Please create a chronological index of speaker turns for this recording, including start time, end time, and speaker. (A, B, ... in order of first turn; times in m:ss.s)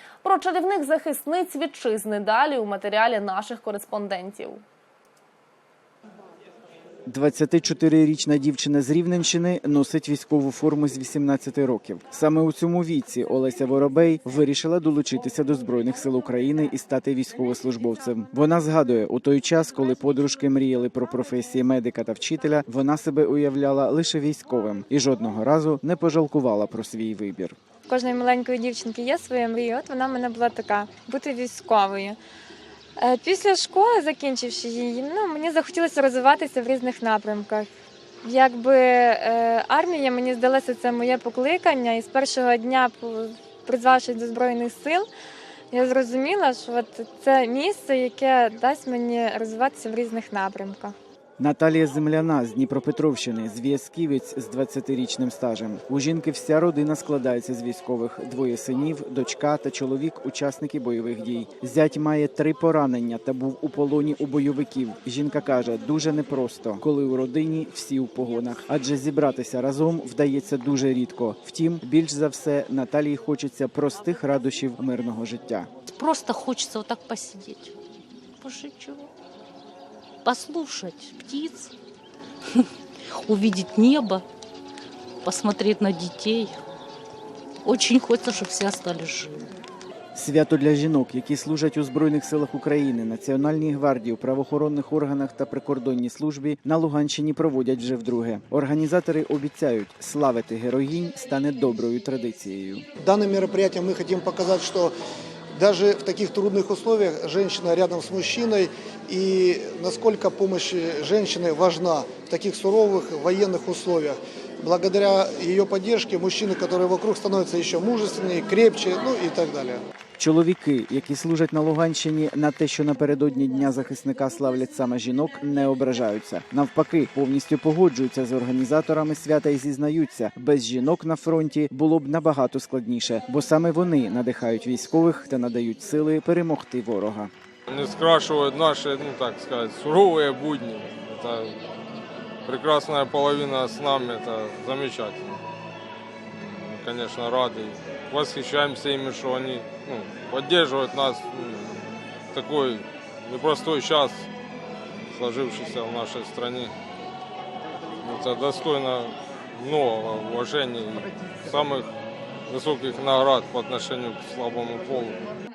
0:00.2-0:04.6 A
0:07.1-0:27.6 B
0:27.9-0:32.2 C
0:33.0-0:37.7 C
0:38.2-0:45.0 C
0:45.7-0:50.9 C
0:51.4-1:15.7 B
1:15.9-1:17.7 D
1:18.4-1:19.1 D
1:20.2-1:21.7 D
1:23.2-1:24.2 D
1:25.2-1:26.5 D
1:27.6-1:29.4 D
1:30.1-1:42.8 B
1:43.0-1:44.9 E
1:45.5-1:59.8 E
2:00.2-2:17.3 B
2:17.7-2:21.6 F
2:22.4-2:25.4 F
2:26.4-2:34.3 F
2:35.1-2:36.7 F
2:38.0-2:41.9 F
2:42.5-2:45.2 F